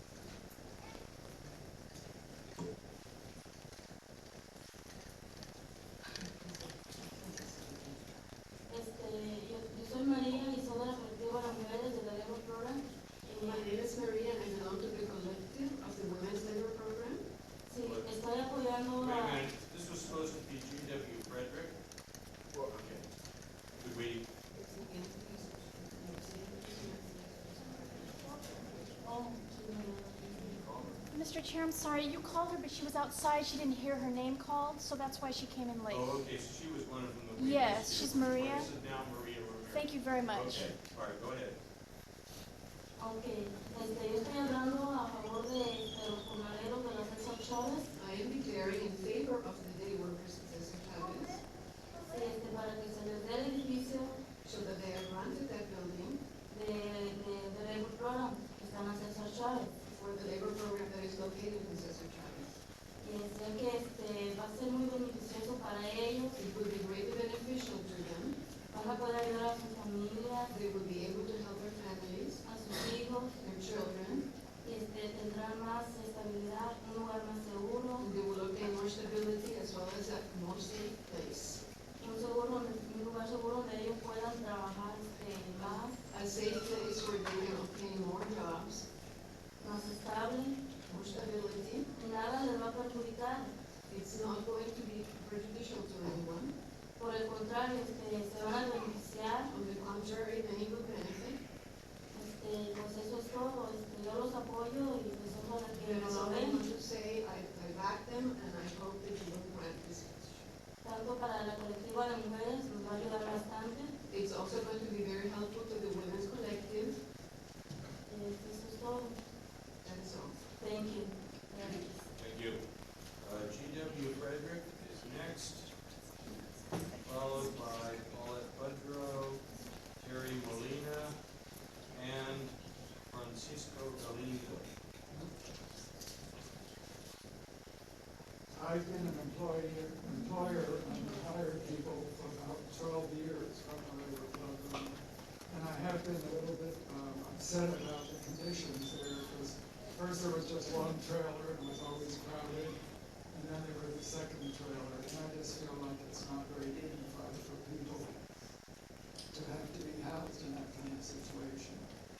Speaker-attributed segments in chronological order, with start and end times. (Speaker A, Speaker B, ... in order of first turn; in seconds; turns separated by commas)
Speaker A: 6.1-8.2, Speaker B: 8.7-13.7, Speaker A: 13.4-17.2, Speaker B: 17.7-19.5, Speaker C: 17.8-18.1, Speaker C: 19.0-21.8, Speaker C: 22.5-23.1, Speaker C: 23.8-24.2, Speaker A: 24.5-28.9, Speaker B: 29.0-30.6, Speaker C: 30.4-31.1, Speaker D: 31.1-36.2, Speaker C: 35.9-41.6, Speaker D: 37.4-38.7, Speaker D: 39.7-40.7, Speaker B: 43.0-47.9, Speaker A: 48.0-51.4, Speaker B: 52.0-54.2, Speaker A: 54.4-56.2, Speaker B: 56.5-59.8, Speaker A: 59.9-62.5, Speaker B: 63.0-66.4, Speaker A: 66.4-68.4, Speaker B: 68.7-70.5, Speaker A: 70.5-72.4, Speaker B: 72.4-73.3, Speaker A: 73.4-74.3, Speaker B: 74.6-78.1, Speaker A: 78.0-81.6, Speaker B: 82.0-86.0, Speaker A: 86.1-88.9, Speaker B: 89.6-90.6, Speaker A: 90.9-91.9, Speaker B: 92.0-93.5, Speaker A: 93.9-96.5, Speaker B: 97.0-99.5, Speaker A: 99.5-101.4, Speaker B: 102.1-106.6, Speaker A: 105.7-110.5, Speaker B: 110.8-113.9, Speaker A: 114.1-117.0, Speaker B: 118.1-119.1, Speaker A: 119.8-120.4, Speaker B: 120.6-122.0, Speaker C: 122.2-122.6, Speaker C: 123.2-125.7, Speaker C: 127.0-129.4, Speaker C: 130.0-131.2, Speaker C: 131.9-132.6, Speaker C: 133.1-134.7, Speaker E: 138.5-152.8, Speaker E: 153.3-158.2, Speaker E: 159.3-161.9